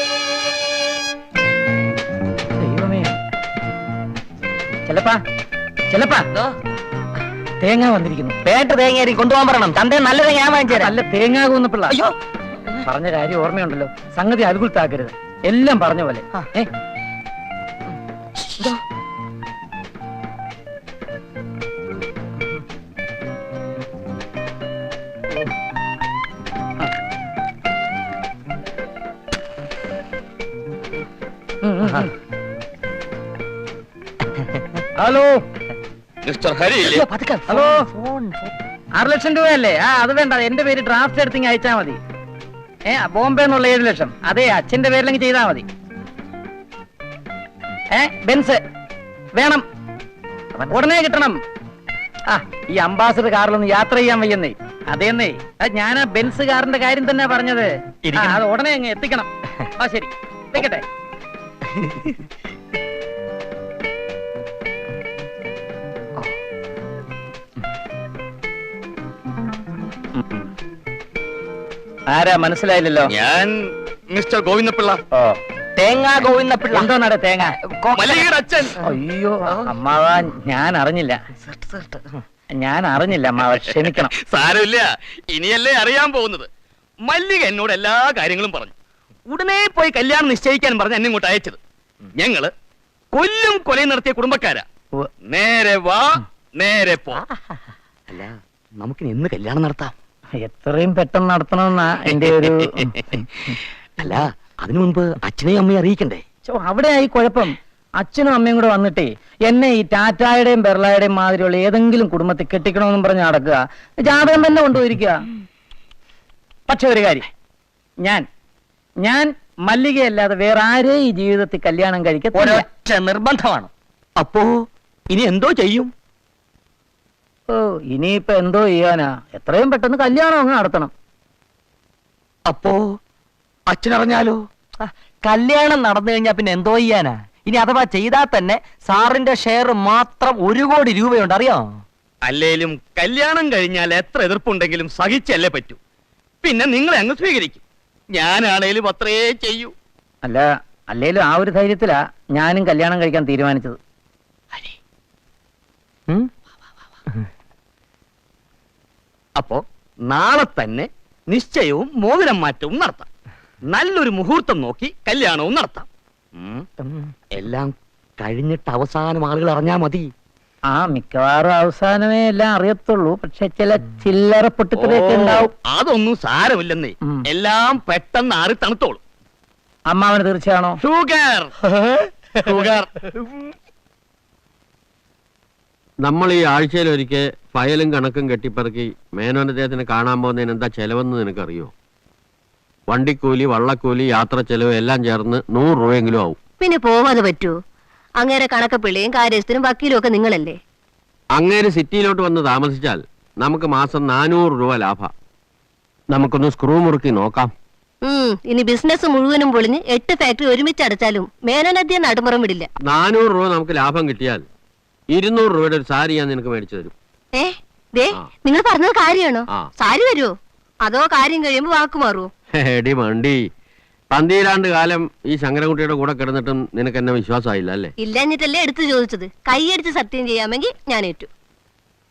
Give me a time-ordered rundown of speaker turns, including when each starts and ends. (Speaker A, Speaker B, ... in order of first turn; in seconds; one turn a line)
Speaker A: 2.6-3.1
Speaker A: 4.9-5.2
Speaker A: 5.9-6.3
Speaker A: 7.6-8.4
Speaker B: 8.4-10.9
Speaker A: 10.7-12.0
Speaker B: 11.9-12.1
Speaker A: 12.8-16.7
Speaker A: 31.6-32.1
Speaker A: 35.0-35.4
Speaker C: 36.2-37.0
Speaker B: 36.8-38.5
Speaker A: 39.0-42.0
Speaker A: 42.9-45.6
Speaker A: 47.9-48.6
Speaker A: 49.4-49.6
Speaker A: 50.7-51.4
Speaker A: 52.3-60.8
Speaker B: 58.1-58.4
Speaker A: 70.2-70.4
Speaker A: 72.1-73.1
Speaker C: 73.1-75.0
Speaker B: 75.8-76.9
Speaker A: 76.7-77.6
Speaker B: 77.8-78.2
Speaker C: 77.9-78.8
Speaker A: 78.8-81.2
Speaker B: 81.5-82.0
Speaker A: 82.6-84.1
Speaker C: 84.1-86.5
Speaker C: 87.0-88.7
Speaker C: 89.3-91.6
Speaker C: 92.1-92.5
Speaker C: 93.1-94.6
Speaker C: 95.2-97.2
Speaker C: 98.8-99.9
Speaker A: 100.4-103.0
Speaker C: 104.0-106.2
Speaker A: 106.5-115.2
Speaker A: 116.7-117.3
Speaker A: 119.0-122.7
Speaker B: 122.3-123.7
Speaker C: 125.1-125.9
Speaker A: 127.5-130.9
Speaker C: 132.5-132.8
Speaker C: 133.7-134.4
Speaker B: 134.8-141.7
Speaker C: 142.2-145.8
Speaker C: 146.4-147.6
Speaker C: 148.1-149.7
Speaker A: 150.2-153.8
Speaker C: 159.4-163.1
Speaker C: 163.7-166.7
Speaker C: 167.3-170.1
Speaker A: 170.7-175.5
Speaker C: 174.8-179.0
Speaker A: 179.9-180.8
Speaker C: 180.8-181.5
Speaker C: 182.4-183.1
Speaker D: 186.0-191.7
Speaker D: 192.9-196.4
Speaker E: 196.6-197.5
Speaker E: 198.2-200.6
Speaker D: 201.3-205.1
Speaker D: 206.1-207.5
Speaker E: 208.0-212.7
Speaker D: 212.8-214.4
Speaker D: 215.1-216.9
Speaker E: 217.3-220.3
Speaker E: 220.8-222.3
Speaker D: 222.5-223.4
Speaker D: 224.1-227.9
Speaker E: 228.0-231.3